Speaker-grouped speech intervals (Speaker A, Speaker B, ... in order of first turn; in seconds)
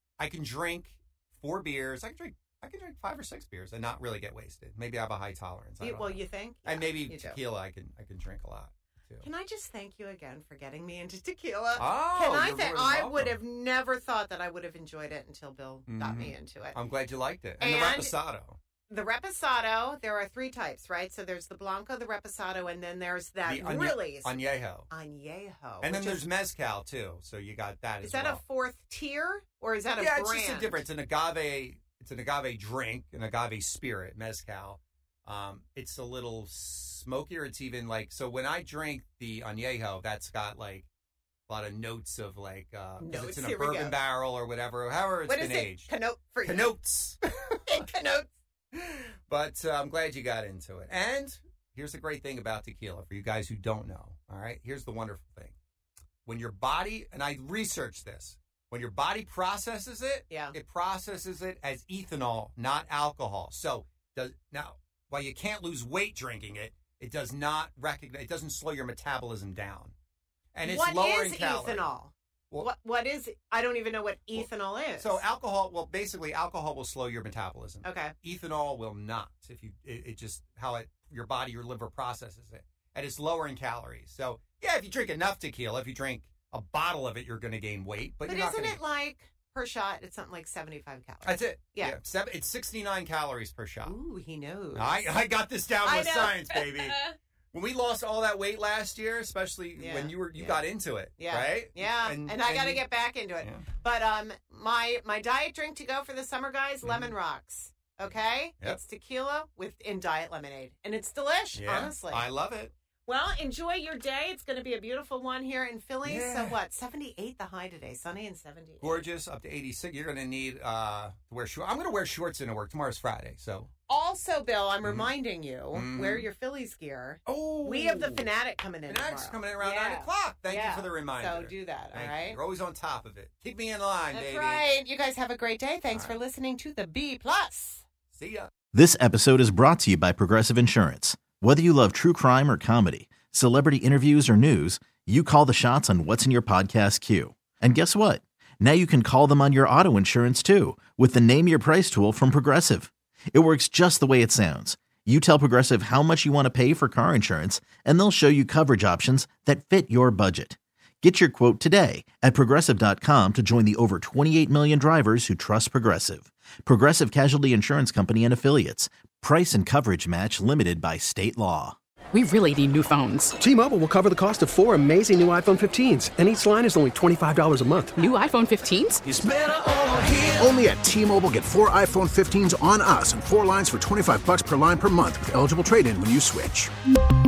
Speaker A: 0.2-9.3, 11.8-13.4, 15.9-18.6, 23.5-24.9, 25.8-28.4, 30.0-40.9, 41.5-45.9, 46.4-47.2, 48.7-55.6, 56.2-69.9, 70.5-71.9, 74.3-88.8, 91.2-94.0, 94.7-102.8, 103.4-103.7, 106.8-107.1, 111.5-112.7, 116.0-116.6, 118.8-123.7, 124.8-125.1, 125.7-126.3, 127.3-128.3, 128.9-134.7, 135.9-136.2, 138.1-138.5
Speaker B: 5.8-7.4, 9.2-16.8, 17.6-18.2, 18.9-26.2, 28.0-30.9, 43.0-44.0, 45.3-46.8, 47.5-48.3, 60.3-60.5, 70.6-75.2, 77.8-78.1, 88.2-92.0, 93.8-95.1, 95.8-97.1, 99.8-112.3, 113.1-119.1, 123.9-132.4, 134.1-137.8
Speaker C: 138.7-171.8
Speaker D: 172.1-173.3, 178.0-179.0
Speaker E: 173.4-178.0
Speaker F: 179.0-186.7